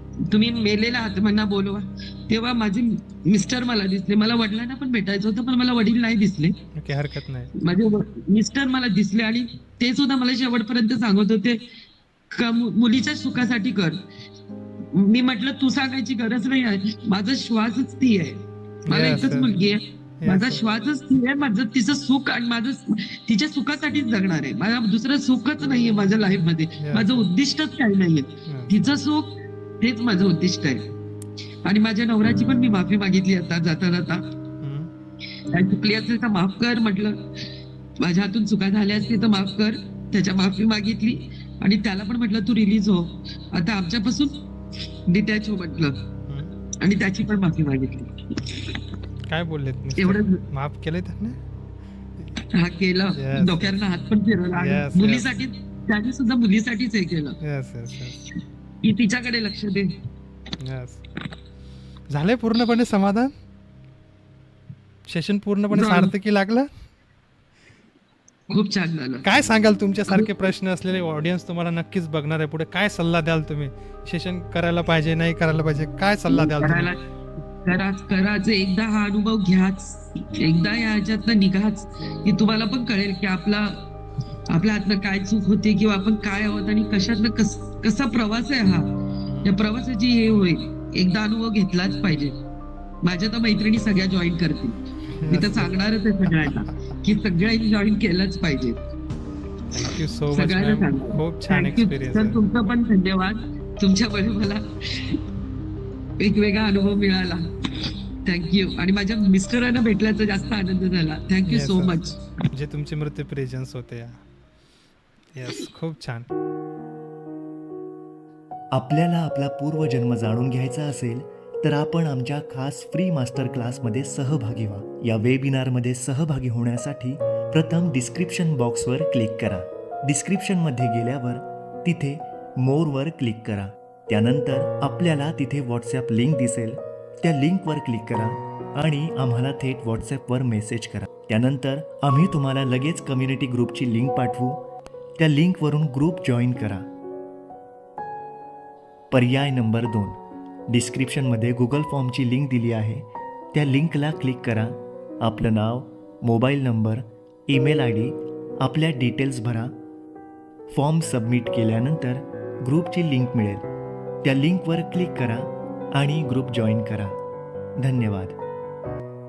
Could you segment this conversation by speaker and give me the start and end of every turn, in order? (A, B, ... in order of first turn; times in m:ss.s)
0:00.3-0:06.6 A
0:06.8-0:07.5 B
0:07.6-0:11.6 A
0:12.3-0:14.0 A
0:14.9-0:30.8 A
0:18.9-0:19.5 B
0:20.2-0:20.6 B
0:26.8-0:27.3 B
0:28.5-0:28.9 B
0:31.6-0:34.2 A
0:34.6-0:34.9 B
0:35.5-0:37.2 A
0:38.0-0:44.4 A
0:45.1-0:46.0 A
0:46.8-0:48.7 A
0:49.3-0:51.4 B
0:50.0-0:50.4 A
0:52.5-0:57.4 A
0:53.2-0:53.8 B
0:54.5-0:55.3 B
0:57.4-0:58.2 B
0:58.8-0:59.9 A
1:00.6-1:01.0 B
1:02.1-1:03.3 B
1:05.1-1:06.7 B
1:05.7-1:06.1 A
1:08.5-1:09.2 A
1:09.2-1:16.9 B
1:16.3-1:17.0 A
1:17.6-1:23.8 A
1:24.5-1:32.3 A
1:29.2-1:29.5 B
1:33.0-1:34.8 A
1:35.2-1:35.7 B
1:35.3-1:38.8 A
1:39.7-1:42.4 B
1:40.3-1:45.2 A
1:46.2-1:47.4 A
1:48.2-1:52.2 A
1:51.5-1:54.2 B
1:55.3-1:56.3 B
1:58.7-2:24.6 C
2:25.2-2:26.9 C
2:29.1-2:39.7 C
2:40.7-2:43.6 C
2:44.2-2:47.1 C
2:47.8-2:48.4 C